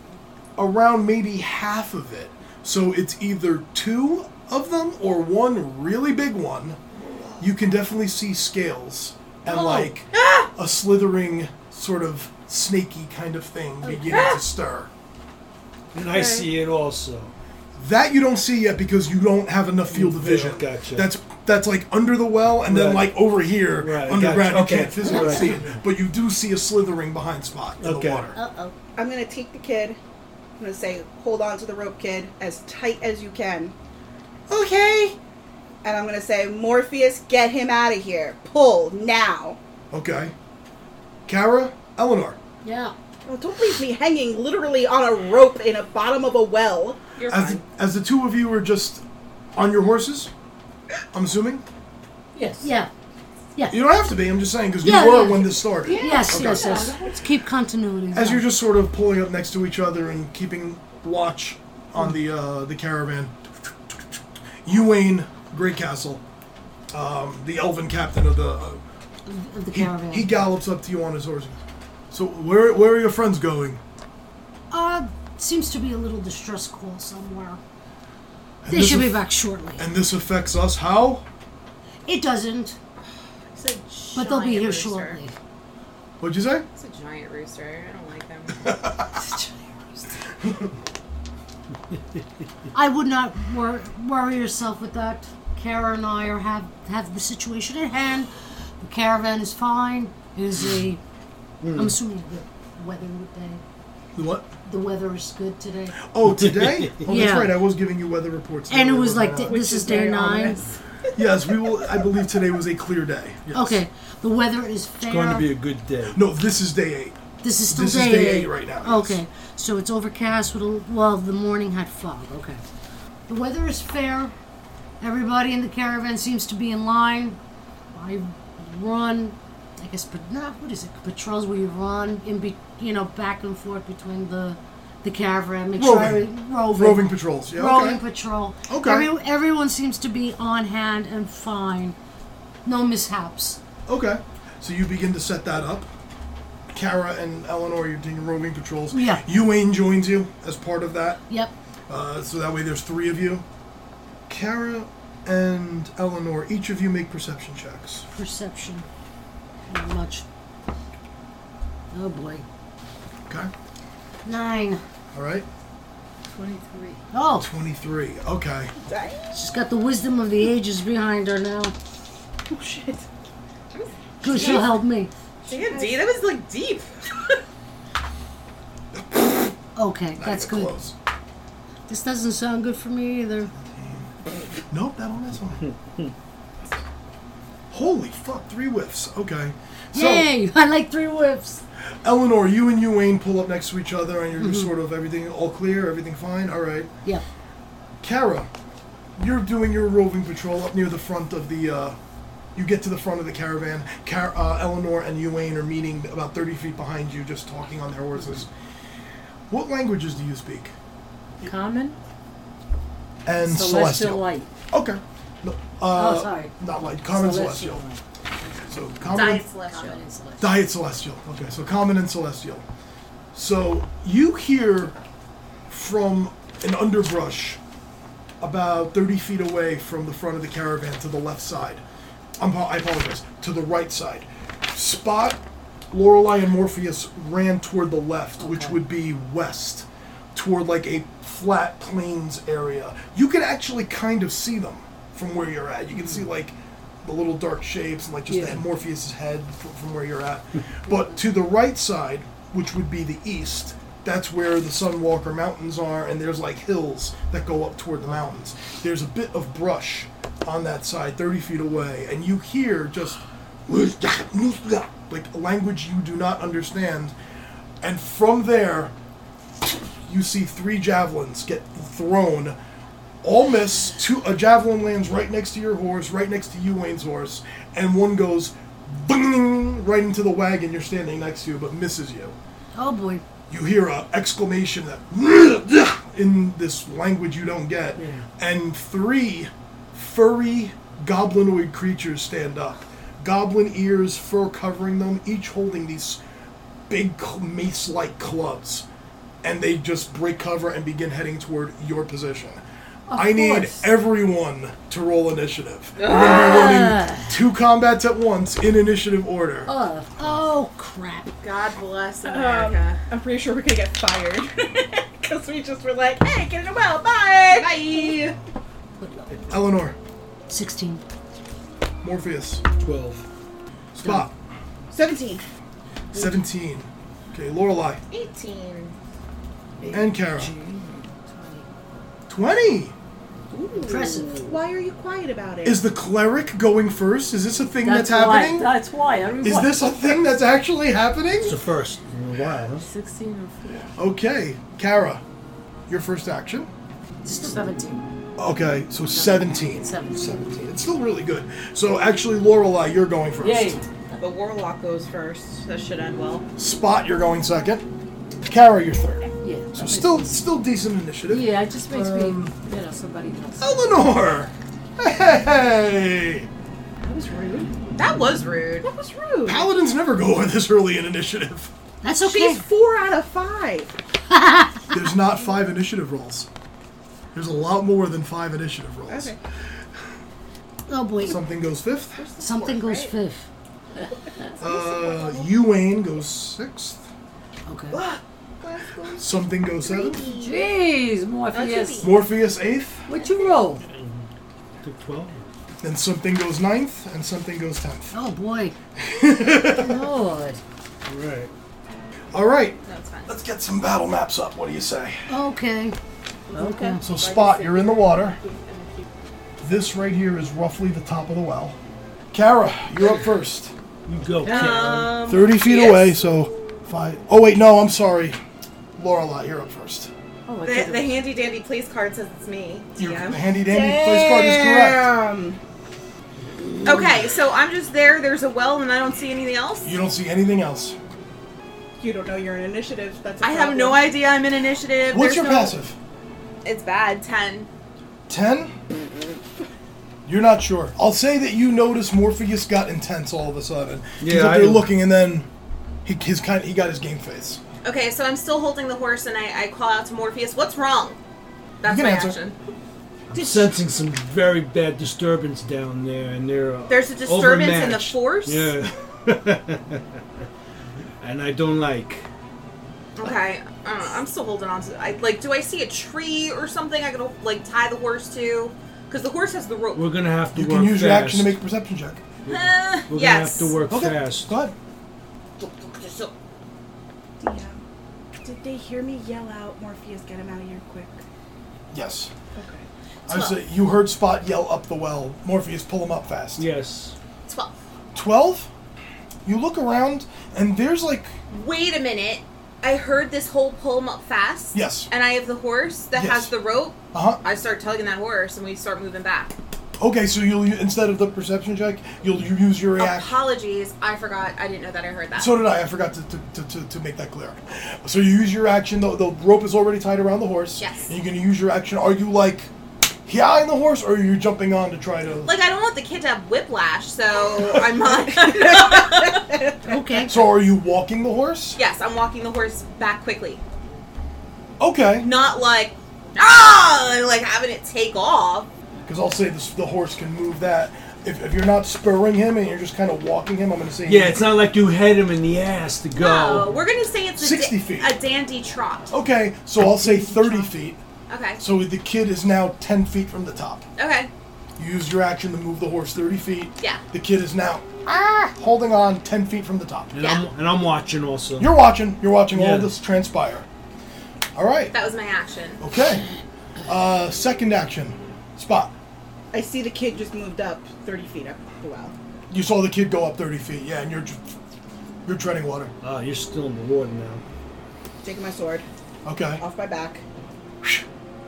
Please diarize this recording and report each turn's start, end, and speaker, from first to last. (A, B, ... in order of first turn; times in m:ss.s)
0:00.6-0:06.8 A
0:07.4-0:14.9 A
0:09.4-0:10.5 B
0:13.8-0:14.3 C
0:14.1-0:14.4 B
0:15.9-0:17.3 D
0:16.1-0:16.5 E
0:17.8-0:28.4 A
0:19.9-0:21.1 D
0:22.6-0:23.1 D
0:23.8-0:25.8 D
0:27.8-0:28.3 D
0:28.3-0:28.7 C
0:29.0-0:30.0 E
0:30.6-0:33.7 E
0:34.5-0:35.2 A
0:35.8-0:39.6 E
0:39.9-0:40.3 A
0:41.3-0:42.4 A
0:42.6-0:42.9 C
0:43.2-0:47.0 E
0:47.2-0:47.6 B
0:47.3-0:49.0 A
0:49.5-0:50.3 A
0:51.1-0:51.6 A
0:52.3-0:52.7 F
0:52.6-0:52.9 C
0:53.7-0:56.8 A
0:54.8-0:58.4 C
0:55.7-0:57.2 F
0:58.1-1:03.3 A
1:03.9-1:06.2 A
1:06.9-1:08.8 A
1:09.2-1:10.5 C
1:09.7-1:11.6 A
1:12.1-1:13.8 A
1:14.7-1:17.6 C
1:18.6-1:19.2 A
1:18.7-1:19.9 C
1:19.8-1:21.2 A
1:22.0-1:22.8 C
1:23.0-1:25.2 B
1:24.1-1:25.3 C
1:26.2-1:26.6 A
1:26.7-1:28.6 B
1:28.6-1:29.0 A
1:29.1-1:29.6 C
1:32.7-1:41.0 C
1:41.6-1:41.9 D
1:41.7-1:43.6 C
1:44.1-1:44.5 A
1:44.6-1:46.0 C
1:46.1-1:49.6 A
1:46.4-1:46.9 D
1:47.1-1:47.6 C
1:48.7-1:50.7 C
1:49.5-1:50.7 E
1:51.1-1:53.8 A
1:53.5-1:55.5 C
1:55.0-1:56.2 D
1:56.1-1:57.2 A
1:57.4-2:02.6 C
1:57.7-1:59.2 A
2:03.3-2:04.3 C
2:05.0-2:07.4 C
2:07.9-2:22.0 C
2:15.8-2:18.0 A
2:18.7-2:19.1 A
2:22.6-2:23.6 C
2:23.8-2:25.9 A
2:26.7-2:31.2 A
2:28.9-2:29.2 C
2:31.9-2:33.4 A
2:34.3-2:38.0 A
2:38.1-2:38.9 C
2:39.7-2:40.2 C
2:41.9-2:42.4 C
2:44.2-2:44.8 C
2:45.1-2:45.5 A
2:46.2-2:47.0 F
2:47.1-2:47.5 C
2:47.4-2:48.7 A
2:48.8-2:49.3 E
2:49.3-2:51.7 C
2:52.5-2:53.0 E
2:53.7-2:54.7 B
2:54.2-2:55.1 C
2:54.3-2:54.6 E
2:55.4-2:56.0 E
2:55.5-2:57.4 B
2:58.9-2:59.5 A
2:59.8-3:00.8 C
3:00.2-3:00.9 A
3:01.9-3:03.5 C
3:04.7-3:05.7 A
3:07.7-3:10.3 A
3:09.9-3:11.6 C
3:12.0-3:16.9 A
3:14.4-3:14.7 C
3:18.0-3:18.5 A
3:19.2-3:22.0 A
3:22.5-3:28.5 A
3:29.5-3:30.7 A
3:31.4-3:32.0 F
3:33.2-3:37.8 A
3:33.4-3:34.5 F
3:35.9-3:36.5 F
3:37.0-3:38.0 F
3:38.7-3:39.4 A
3:39.1-3:40.0 B
3:39.8-3:40.4 C
3:40.4-3:42.6 A
3:43.3-3:44.9 A
3:45.7-3:47.6 A
3:48.4-3:51.8 A
3:52.4-3:55.4 A
3:55.9-4:27.1 A
3:58.4-3:58.8 F
4:08.3-4:08.6 F
4:27.8-4:28.9 A
4:29.6-4:32.6 A
4:33.2-4:42.3 A
4:42.7-4:43.2 C
4:43.5-4:56.2 A
4:48.0-4:48.2 F
4:56.9-4:58.8 A
4:59.4-5:09.7 A
5:03.1-5:03.9 F
5:06.0-5:07.3 F
5:09.7-5:10.1 F
5:10.1-5:11.3 C
5:11.4-5:13.0 B
5:12.2-5:18.4 E
5:17.5-5:18.2 B
5:19.0-5:19.3 C
5:19.5-5:20.0 A
5:20.5-5:21.0 C
5:22.0-5:22.6 A
5:22.8-5:23.2 D
5:24.0-5:24.3 A
5:24.9-5:25.4 E
5:26.1-5:28.0 A
5:28.1-5:28.9 B
5:29.8-5:31.6 F
5:29.9-5:30.5 A
5:32.3-5:32.9 A
5:33.7-5:34.4 F
5:33.8-5:34.5 C
5:34.4-5:35.8 E
5:35.6-5:38.8 A
5:37.8-5:40.2 F
5:39.4-5:41.6 A
5:41.4-5:42.9 D
5:42.8-5:43.9 F
5:44.0-5:45.2 A
5:45.9-5:46.7 A
5:47.2-5:48.0 C
5:47.4-5:47.7 F
5:48.4-5:53.8 A
5:49.2-5:50.0 F
5:49.8-5:50.3 C
5:53.4-5:54.1 F
5:54.2-5:56.4 B
5:56.6-5:57.8 A
5:58.4-6:02.5 A
5:59.4-6:00.4 F
6:01.3-6:03.9 F
6:03.6-6:06.5 A
6:07.0-6:07.7 E
6:07.9-6:08.9 B
6:08.8-6:09.7 E
6:09.4-6:11.7 A
6:12.0-6:12.6 C
6:12.2-6:13.9 E
6:14.3-6:14.9 C
6:14.9-6:16.5 A
6:17.3-6:19.4 A
6:19.1-6:19.4 E
6:20.9-6:21.4 C
6:21.2-6:22.2 A
6:22.2-6:23.1 E
6:22.4-6:23.5 C
6:24.5-6:25.5 E
6:24.6-6:27.0 A
6:27.6-6:28.0 C
6:27.9-6:30.6 E
6:29.2-6:30.2 A
6:30.2-6:32.1 F
6:31.5-6:32.1 E
6:32.0-6:33.0 A
6:33.1-6:33.8 F
6:33.8-6:34.3 D
6:34.8-6:35.4 D
6:35.8-6:38.1 A
6:38.1-6:38.7 C
6:39.0-6:40.0 A
6:39.7-6:40.6 F
6:41.0-6:41.5 D
6:42.3-6:45.2 A
6:42.8-6:43.3 B
6:45.3-6:46.0 C
6:46.5-6:47.0 C
6:46.5-6:47.3 E
6:46.5-6:47.0 F
6:47.0-6:48.4 A
6:47.1-6:47.8 B
6:48.4-6:49.0 B
6:49.6-6:51.8 A
6:52.3-6:53.7 A
6:54.1-6:55.2 D
6:54.4-6:56.2 B
6:55.1-6:58.4 A
6:59.0-7:00.1 A
7:00.5-7:01.2 F
7:00.6-7:03.4 B
7:03.0-7:05.1 A
7:03.5-7:05.6 E
7:06.8-7:09.9 B
7:09.8-7:11.0 A
7:12.0-7:14.0 E
7:13.4-7:15.8 B
7:15.1-7:16.0 A
7:16.6-7:17.7 B
7:18.3-7:18.7 A
7:20.2-7:25.5 A
7:24.2-7:24.9 D
7:26.0-7:27.6 A
7:27.8-7:31.2 B
7:31.8-7:32.5 B
7:31.8-7:32.4 A
7:33.3-7:40.2 D
7:33.4-7:33.7 E
7:36.9-7:38.7 B
7:41.2-7:42.2 D
7:43.2-7:50.1 B
7:49.9-7:51.6 D
7:50.5-7:52.2 A
7:52.5-7:53.8 B
7:52.5-7:54.5 D
7:53.9-7:54.7 A
7:55.6-7:56.3 B
7:57.4-7:57.8 E
7:58.4-8:01.2 E
8:01.9-8:02.3 A
8:02.5-8:02.9 E
8:03.3-8:03.6 B
8:03.3-8:06.7 A
8:06.6-8:07.1 D
8:07.5-8:07.7 B
8:08.1-8:08.7 A
8:09.4-8:11.3 A
8:11.5-8:19.5 B
8:14.7-8:15.1 A
8:16.1-8:16.5 A
8:17.1-8:17.4 A
8:20.0-8:23.4 A
8:23.0-8:25.5 B
8:25.4-8:32.7 A
8:30.8-8:31.1 B
8:33.2-8:35.6 A
8:35.4-8:39.5 B
8:38.3-8:40.0 E
8:39.9-8:40.4 C
8:40.3-8:41.8 A
8:41.8-8:43.6 B
8:44.8-8:45.3 A
8:45.2-8:48.7 B
8:49.0-8:54.5 A
8:54.0-8:56.8 D
8:56.2-8:59.1 B
8:57.4-8:58.1 A
8:59.1-9:01.0 A
9:01.3-9:01.6 B
9:01.6-9:03.8 A
9:04.0-9:04.3 B
9:04.8-9:10.1 A
9:10.1-9:11.7 D
9:10.2-9:10.5 B
9:11.6-9:13.6 A
9:12.5-9:12.9 D
9:14.5-9:14.9 A
9:14.9-9:15.8 B
9:15.8-9:16.2 A
9:16.8-9:18.9 A
9:19.5-9:22.1 E
9:22.5-9:24.4 A
9:25.2-9:25.9 A
9:26.0-9:27.4 D
9:28.2-9:28.8 E
9:29.2-9:29.6 A
9:29.6-9:30.2 E